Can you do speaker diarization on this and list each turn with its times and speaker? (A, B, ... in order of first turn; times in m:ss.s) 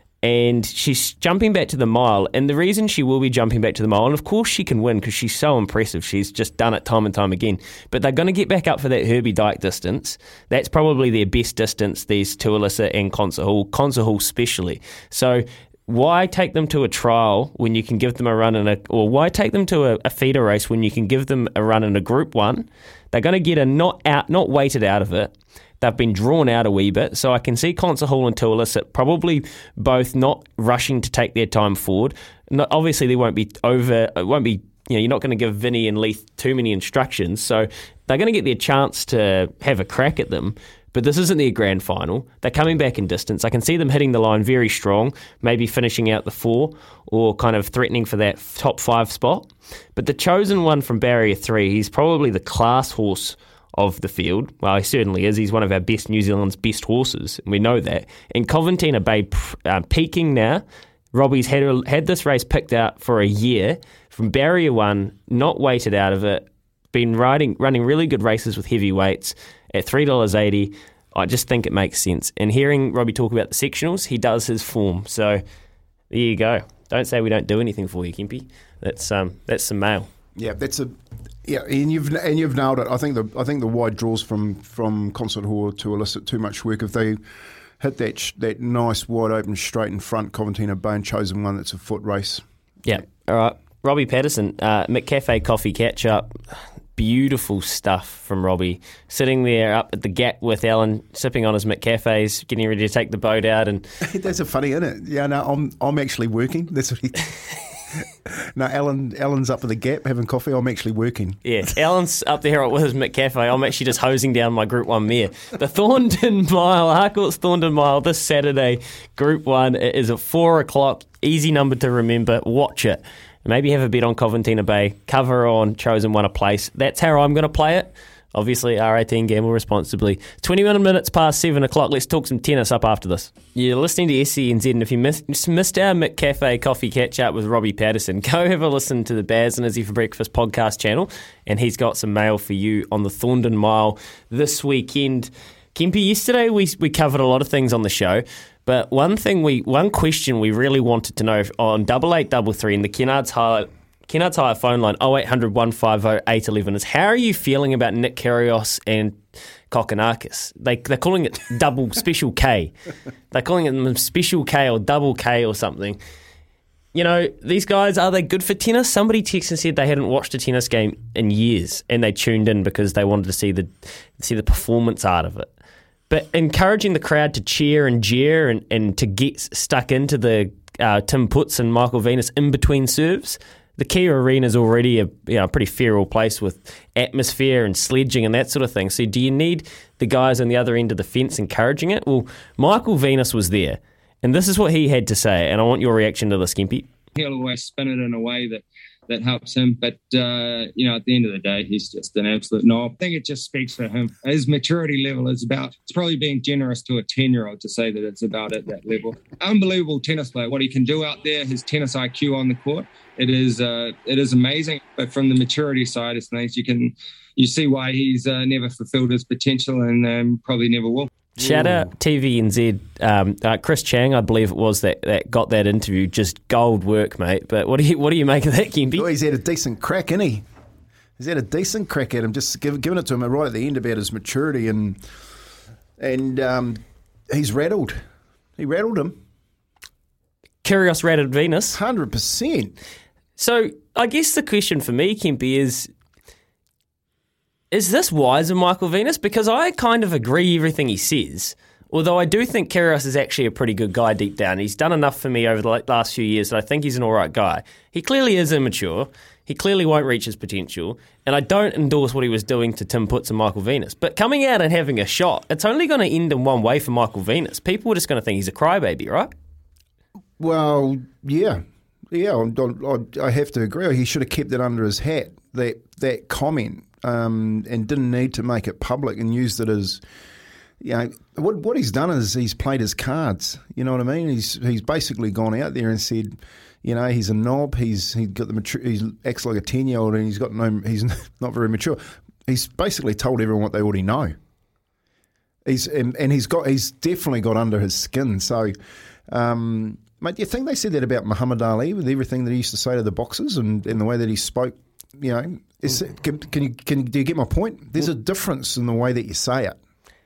0:00.2-1:15.4 A
1:16.1-1:20.1 A
1:20.4-1:27.2 B
1:27.8-1:32.4 B
1:32.8-1:36.4 A
1:37.0-1:43.8 A
1:44.0-1:47.4 B
1:48.0-1:51.4 B
1:51.4-2:42.7 A
2:43.3-2:46.0 A
2:46.9-2:55.5 A
2:56.1-3:16.9 A
3:17.2-3:41.1 C
3:41.4-3:49.0 A
3:41.4-3:41.9 B
3:48.9-3:50.4 B
3:51.2-3:55.0 B
3:56.0-3:58.0 B
3:58.6-3:59.2 B
4:00.6-4:01.8 A
4:01.7-4:02.7 B
4:03.4-4:05.9 A
4:07.7-4:29.3 A
4:30.4-4:40.0 B
4:40.8-4:54.4 B
4:55.6-4:58.7 B
4:59.3-5:09.8 B